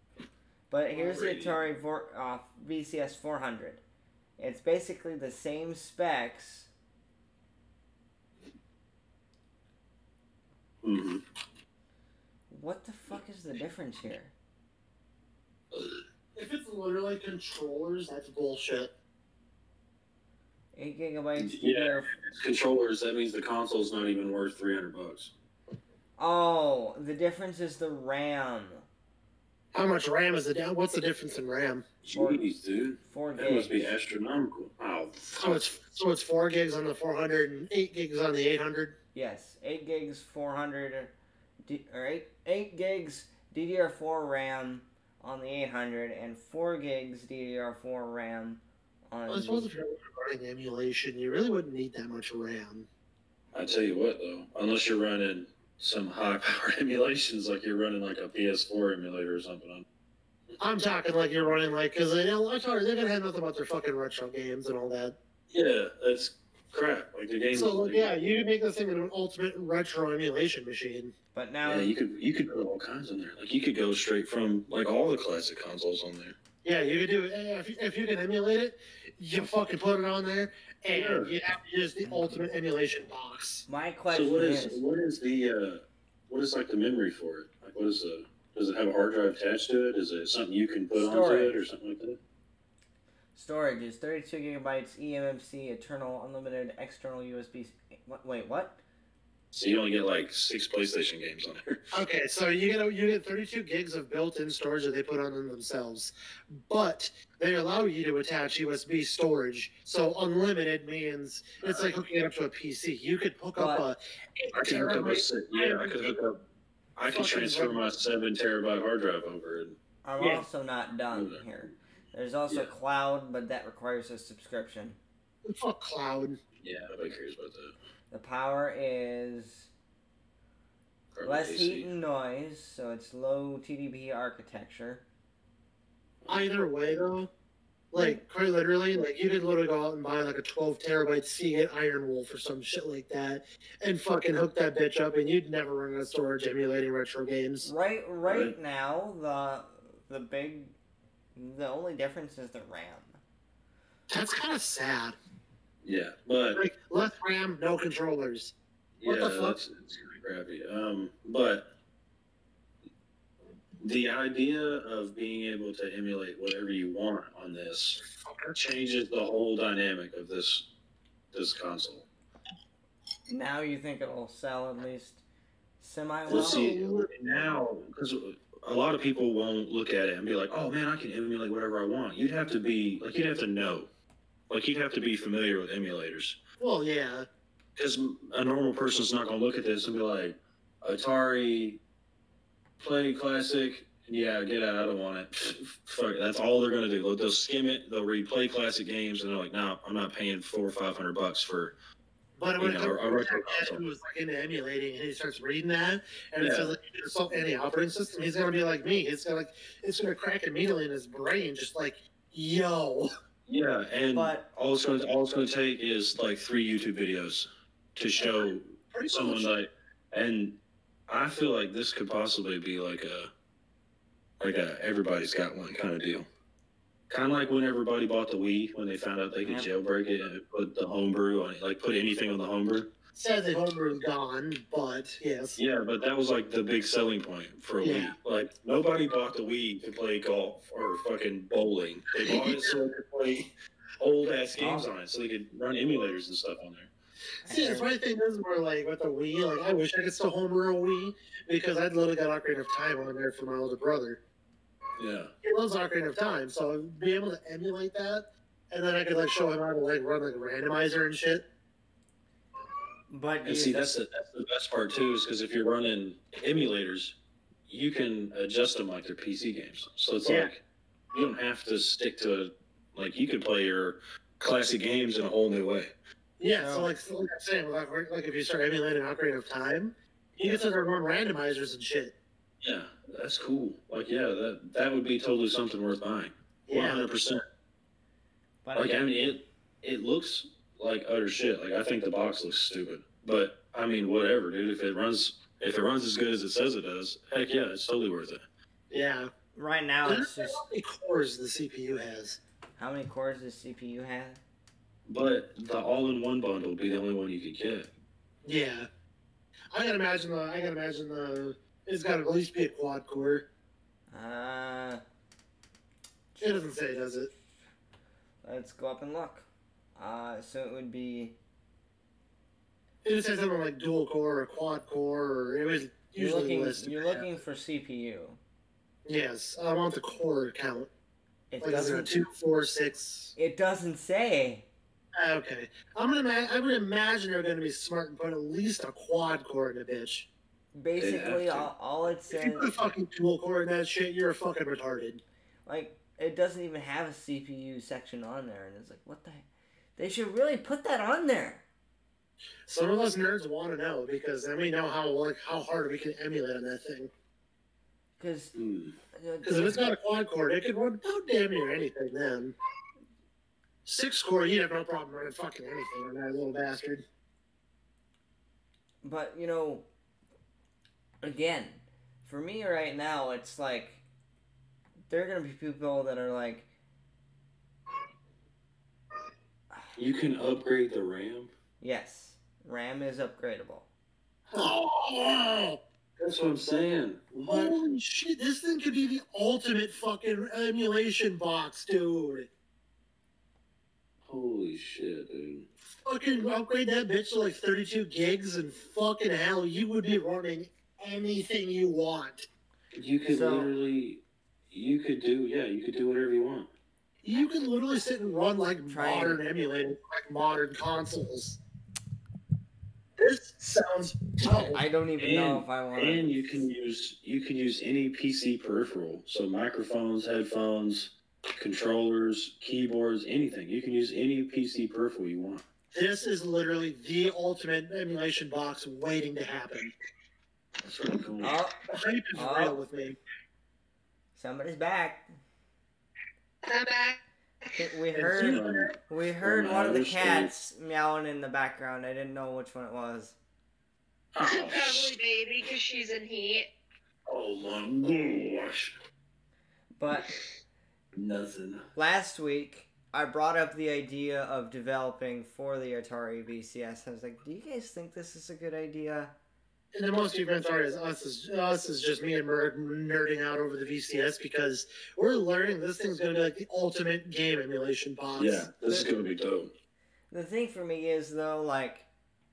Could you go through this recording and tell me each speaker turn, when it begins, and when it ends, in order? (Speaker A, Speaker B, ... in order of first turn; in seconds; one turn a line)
Speaker A: 0.7-3.8
Speaker B: 0.9-1.6
Speaker A: 4.4-6.7
Speaker B: 10.8-11.2
Speaker A: 12.5-14.3
Speaker B: 15.7-16.0
Speaker C: 16.3-18.9
Speaker A: 20.7-22.1
Speaker B: 21.4-25.3
Speaker A: 26.2-28.8
Speaker C: 29.7-31.9
Speaker B: 32.0-35.6
Speaker A: 32.1-32.4
Speaker A: 33.0-33.8
Speaker C: 35.4-39.0
Speaker A: 39.1-41.1
Speaker A: 41.6-49.7
Speaker C: 49.3-52.9
Speaker B: 53.5-59.8
Speaker C: 60.6-65.2
Speaker B: 65.5-68.2
Speaker C: 67.5-71.1
Speaker A: 71.3-71.9
Speaker B: 71.6-76.3
Speaker C: 76.6-83.6
Speaker B: 80.9-81.3
Speaker A: 83.7-84.8
Speaker B: 84.1-92.2
Speaker A: 90.9-91.6
Speaker A: 93.3-98.8
Speaker B: 99.5-101.8
Speaker C: 101.9-116.0
Speaker B: 111.6-111.9
Speaker A: 113.5-113.8
Speaker B: 114.5-116.4
Speaker B: 117.0-119.8
Speaker C: 117.1-117.8
Speaker A: 120.0-125.0
Speaker C: 120.2-120.4
Speaker B: 121.1-121.4
Speaker C: 125.4-126.4
Speaker B: 126.6-127.7
Speaker A: 128.1-129.7
Speaker B: 131.1-131.9
Speaker A: 131.2-135.0
Speaker C: 136.3-137.3
Speaker C: 137.9-147.7
Speaker A: 137.9-138.2
Speaker A: 147.6-150.7
Speaker B: 148.2-148.5
Speaker A: 151.3-153.2
Speaker C: 154.1-155.2
Speaker B: 155.8-156.6
Speaker C: 156.5-158.5
Speaker B: 159.0-161.7
Speaker C: 159.0-159.6
Speaker B: 163.8-168.0
Speaker C: 168.0-168.6
Speaker B: 168.5-170.7
Speaker B: 171.3-172.1
Speaker A: 173.3-175.2
Speaker A: 175.8-176.6
Speaker C: 176.3-177.4
Speaker B: 176.3-183.9
Speaker B: 184.5-186.4
Speaker C: 186.6-187.3
Speaker B: 187.8-191.8
Speaker B: 192.8-201.7
Speaker C: 202.4-213.1
Speaker B: 202.6-203.8
Speaker B: 206.4-206.7
Speaker B: 213.5-223.3
Speaker A: 214.1-214.4
Speaker C: 218.2-219.5
Speaker B: 224.4-226.3
Speaker B: 227.1-232.9
Speaker A: 229.4-229.7
Speaker C: 233.1-235.6
Speaker B: 235.6-246.9
Speaker C: 237.8-238.1
Speaker C: 242.2-242.7
Speaker A: 244.6-244.9
Speaker A: 247.4-247.9
Speaker C: 247.4-254.2
Speaker B: 255.0-255.3
Speaker C: 255.4-261.4
Speaker A: 263.1-263.8
Speaker B: 263.4-267.1
Speaker B: 267.7-270.6
Speaker C: 270.2-270.5
Speaker B: 271.1-275.9
Speaker C: 276.4-282.1
Speaker A: 276.5-276.9
Speaker B: 282.6-287.4
Speaker C: 286.7-287.0
Speaker A: 288.6-289.1
Speaker B: 288.7-298.4
Speaker C: 298.9-299.3
Speaker A: 299.5-300.6
Speaker C: 300.0-302.4
Speaker A: 302.8-304.4
Speaker B: 305.1-307.9
Speaker C: 308.4-308.9
Speaker C: 309.7-313.4
Speaker A: 314.1-315.0
Speaker A: 316.3-316.6
Speaker C: 316.4-317.3
Speaker A: 318.4-321.4
Speaker C: 323.0-327.2
Speaker A: 326.1-328.4
Speaker C: 329.0-330.9
Speaker A: 331.5-332.2
Speaker C: 331.6-333.3
Speaker A: 333.4-334.6
Speaker C: 335.2-340.3
Speaker A: 340.7-342.9
Speaker B: 341.0-341.7
Speaker C: 342.3-345.2
Speaker A: 345.6-349.4
Speaker A: 350.0-351.6
Speaker C: 352.6-357.1
Speaker A: 358.2-358.5
Speaker B: 358.5-358.9
Speaker A: 359.1-359.9
Speaker C: 359.4-362.5
Speaker C: 363.8-367.0
Speaker A: 369.0-369.9
Speaker A: 371.2-374.0
Speaker A: 375.1-376.7
Speaker B: 379.9-381.5
Speaker A: 381.8-383.9
Speaker C: 384.5-385.8
Speaker B: 386.2-387.7
Speaker C: 387.4-392.5
Speaker B: 394.2-395.7
Speaker C: 396.0-402.5
Speaker B: 402.9-406.7
Speaker A: 403.3-403.7
Speaker C: 407.2-411.6
Speaker A: 408.9-409.4
Speaker C: 413.2-414.8
Speaker A: 414.5-416.6
Speaker B: 415.2-425.6
Speaker C: 425.9-429.9
Speaker B: 430.8-431.6
Speaker A: 431.4-431.8
Speaker C: 431.9-433.2
Speaker A: 432.3-432.8
Speaker A: 434.4-435.2
Speaker D: 436.6-437.2
Speaker A: 437.7-443.4
Speaker C: 438.1-438.9
Speaker B: 438.4-440.5
Speaker B: 444.3-445.1
Speaker D: 444.4-446.7
Speaker B: 447.3-448.9
Speaker A: 450.0-450.3
Speaker B: 451.1-451.8
Speaker A: 451.9-459.3
Speaker C: 459.9-468.7
Speaker B: 468.4-469.7
Speaker A: 470.3-472.1